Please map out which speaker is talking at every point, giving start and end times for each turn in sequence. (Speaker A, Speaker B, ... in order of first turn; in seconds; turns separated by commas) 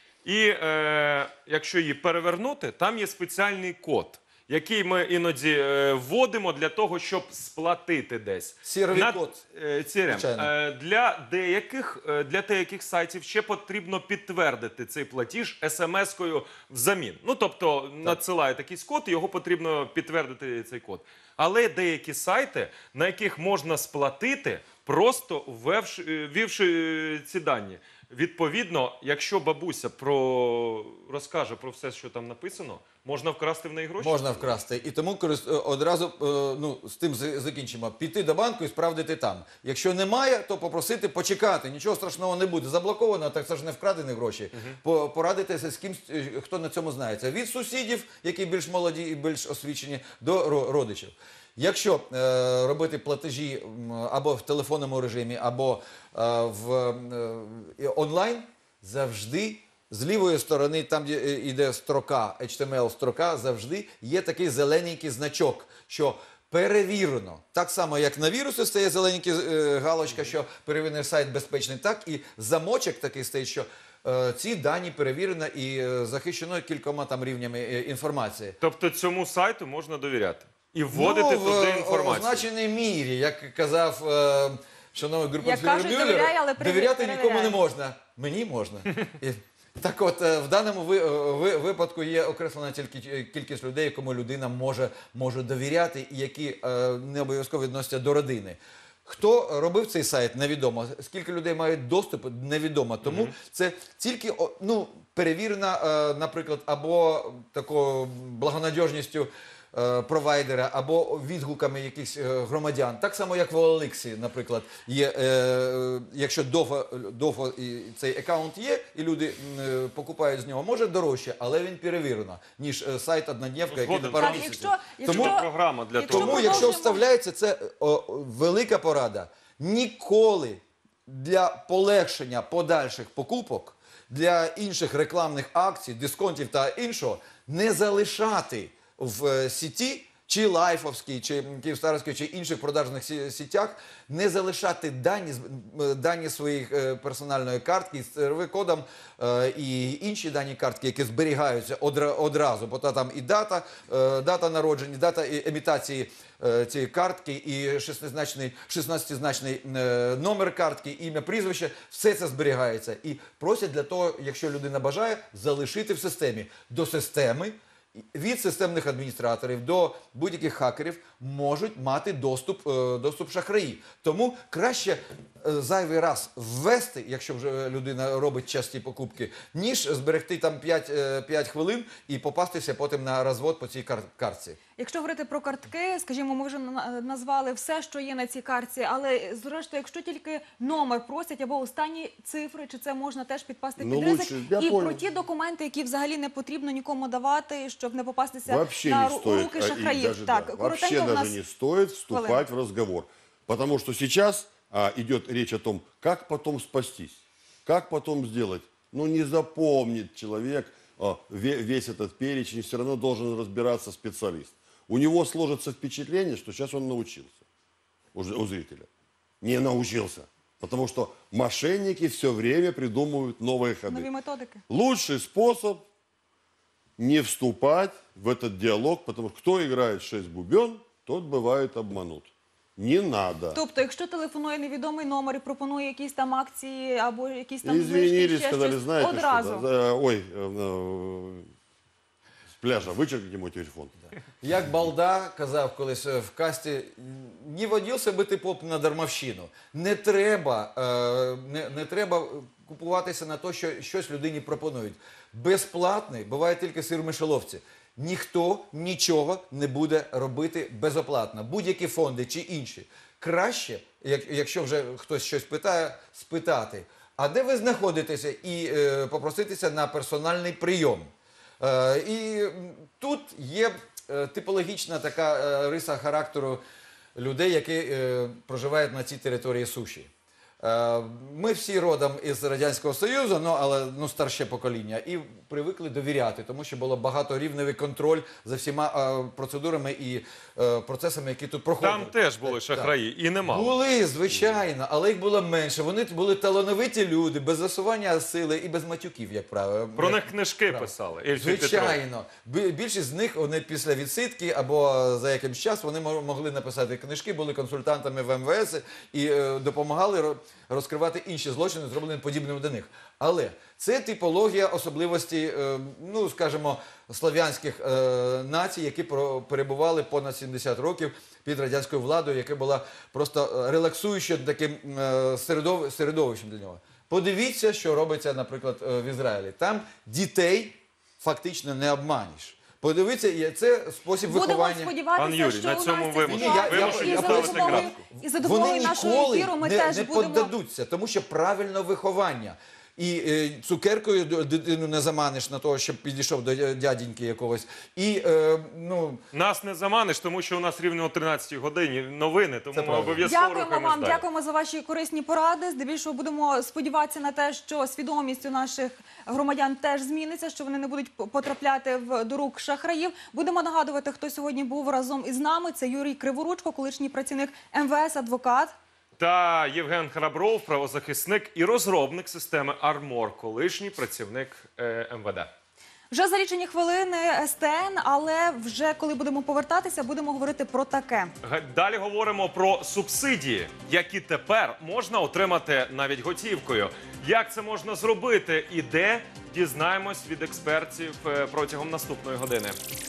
Speaker A: 0.2-34.5, Speaker B: 8.6-9.4, Speaker B: 10.1-10.5, Speaker B: 34.0-78.6, Speaker A: 78.6-82.5, Speaker B: 80.9-125.4, Speaker C: 85.4-87.6, Speaker A: 103.0-103.3, Speaker A: 123.7-126.7, Speaker C: 124.2-127.0, Speaker B: 126.0-184.6, Speaker C: 184.8-201.3, Speaker D: 193.8-195.0, Speaker D: 198.5-217.4, Speaker C: 202.1-202.4, Speaker D: 218.1-218.9, Speaker D: 219.4-224.1, Speaker C: 223.9-224.6, Speaker D: 224.7-225.8, Speaker D: 227.0-233.6, Speaker C: 233.5-239.7, Speaker D: 237.6-241.5, Speaker D: 242.5-243.9, Speaker B: 244.4-276.6, Speaker B: 277.1-280.1, Speaker B: 280.6-292.9, Speaker A: 291.8-293.7, Speaker B: 293.5-334.9, Speaker A: 300.0-302.0, Speaker C: 334.3-340.5, Speaker A: 335.2-337.9, Speaker B: 336.2-349.2, Speaker A: 349.3-354.2, Speaker B: 352.7-353.2, Speaker C: 353.2-368.7, Speaker A: 369.2-375.5, Speaker C: 376.1-381.3, Speaker A: 381.4-392.8